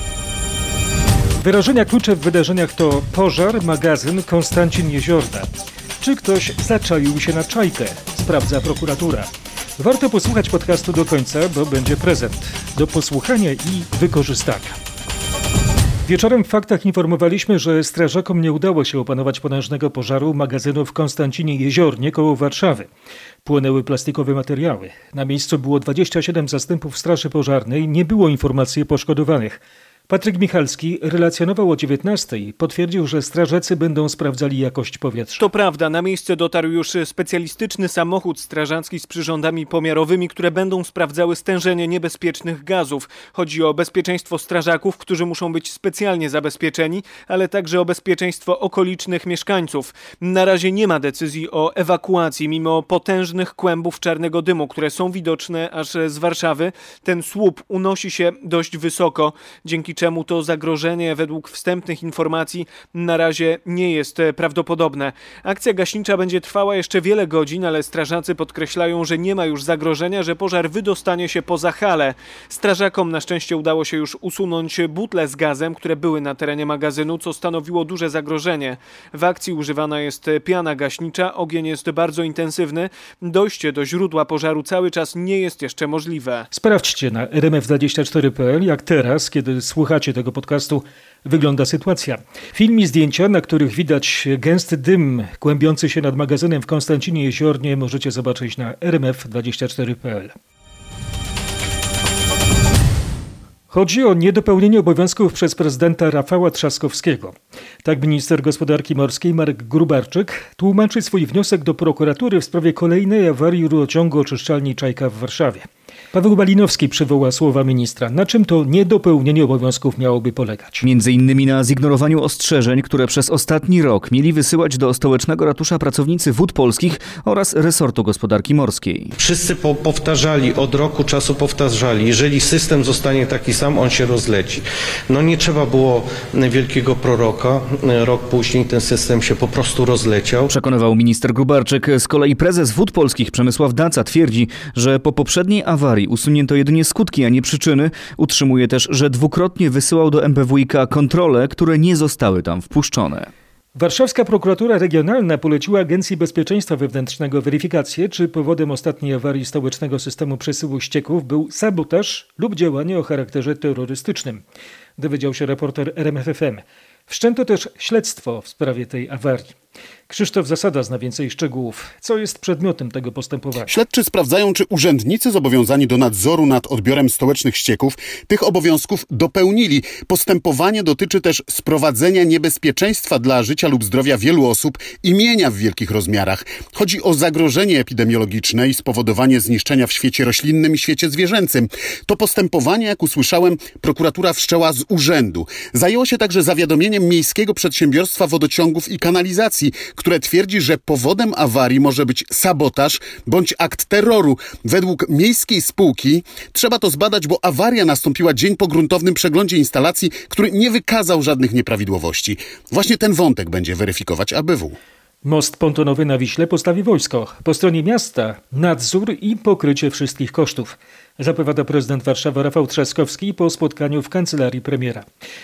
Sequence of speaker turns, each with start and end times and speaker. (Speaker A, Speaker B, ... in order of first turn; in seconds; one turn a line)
Speaker A: 1.4-5.5
Speaker A: 6.0-14.8
Speaker A: 16.1-22.9
Speaker A: 23.4-35.5
Speaker B: 35.4-86.5
Speaker A: 86.5-100.3
Speaker A: 103.7-120.8
Speaker C: 120.8-129.1
Speaker D: 129.2-140.5
Speaker C: 140.5-153.3
Speaker A: 153.7-164.4
Speaker A: 165.0-169.5
Speaker A: 170.1-173.7
Speaker E: 173.7-214.8
Speaker A: 215.2-225.1